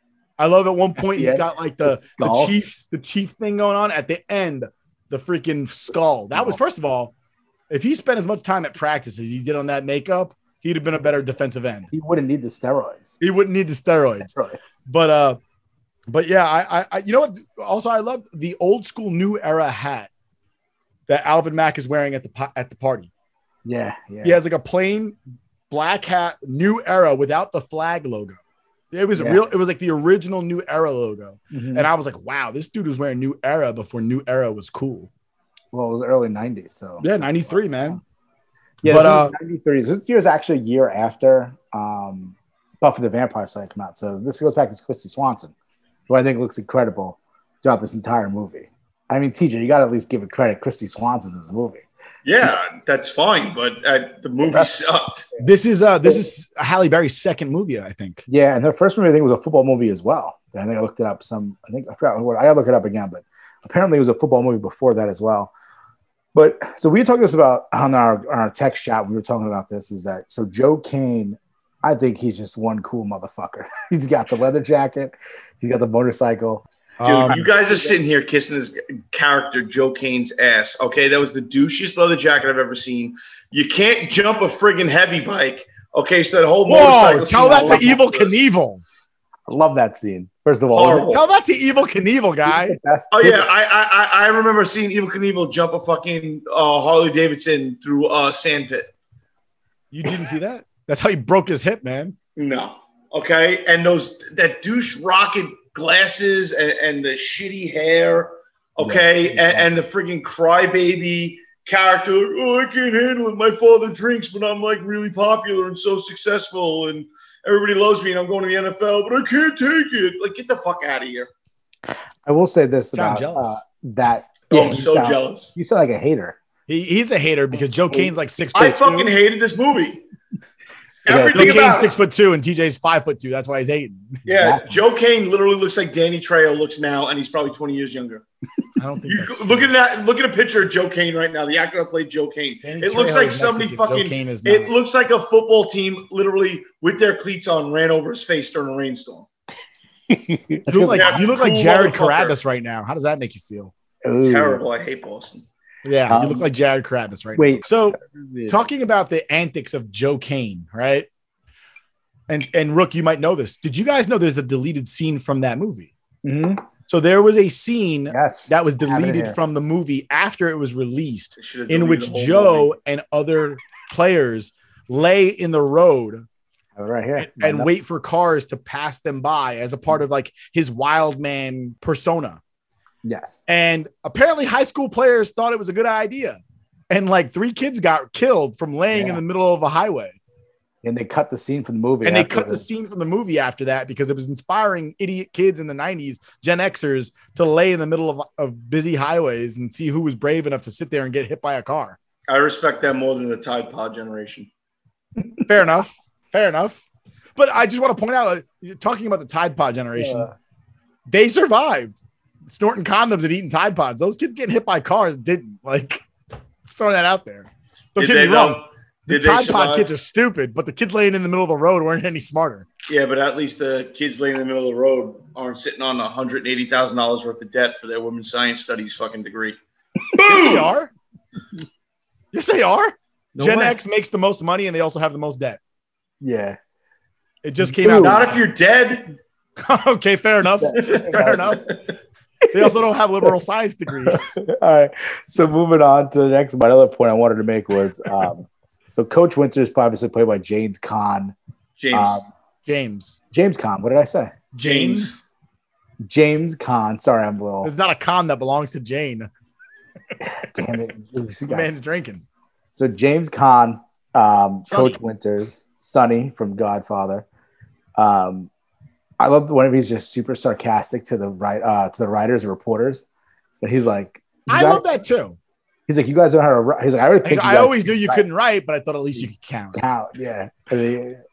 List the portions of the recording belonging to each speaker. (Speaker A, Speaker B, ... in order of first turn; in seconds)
Speaker A: 0.4-7.1, 7.7-11.9, 13.2-14.3, 14.8-15.4, 16.1-20.1, 21.1-23.1, 24.2-25.1, 25.7-28.4, 28.9-35.1, 37.0-38.0, 38.8-39.3, 55.4-58.2, 77.0-77.4, 86.7-88.8, 91.1-92.8, 99.9-102.1, 122.9-123.6, 126.7-129.1, 131.3-134.2, 138.8-139.7, 142.6-144.7, 150.7-153.7, 155.8-161.1, 162.3-165.9, 166.9-176.2, 177.2-182.4, 183.5-190.2, 192.0-202.0, 205.4-206.8, 207.3-210.3, 211.1-216.0, 216.7-222.7, 230.2-230.9, 232.3-235.6, 237.4-238.3, 239.6-241.7, 242.5-244.4, 252.7-253.2, 254.5-255.2, 257.6-259.3, 261.5-262.2, 264.7-265.0, 274.5-275.4, 277.2-279.8
Speaker B: 1.0-2.5, 6.3-6.6, 11.9-13.2, 14.1-14.7, 23.6-24.4, 29.1-29.4, 31.5-31.9, 35.7-38.0, 38.8-45.5, 46.1-51.8, 54.4-54.7, 58.3-65.5, 66.3-76.6, 77.2-78.0, 87.3-88.0, 89.5-91.1, 92.4-93.5, 108.8-109.7, 122.2-126.4, 127.9-128.6, 131.1-131.9, 134.3-134.8, 150.1-151.2, 154.0-154.6, 156.1-156.4, 157.3-158.6, 166.2-166.6, 168.1-169.4, 176.8-177.7, 183.0-183.4, 188.9-189.2, 190.8-192.6, 209.9-210.3, 236.2-236.6, 237.6-238.3, 240.6-241.6, 244.0-251.3, 251.9-252.2, 253.3-254.3, 256.0-257.7, 260.2-261.8, 262.7-267.2, 267.9-268.5, 269.2-273.1, 273.6-274.8, 275.9-278.2, 279.2-281.2
Speaker C: 52.2-55.2, 77.0-88.4, 90.7-91.2, 93.1-98.9, 102.3-121.3, 124.5-125.5, 128.5-130.0, 131.0-131.9, 134.2-138.2, 139.1-149.3, 150.9-152.4, 154.2-155.4, 171.4-172.7, 202.3-204.5, 217.9-219.9, 222.9-229.6, 230.1-230.7, 233.4-233.7, 237.8-239.1, 240.8-241.1, 251.8-252.2, 254.6-255.2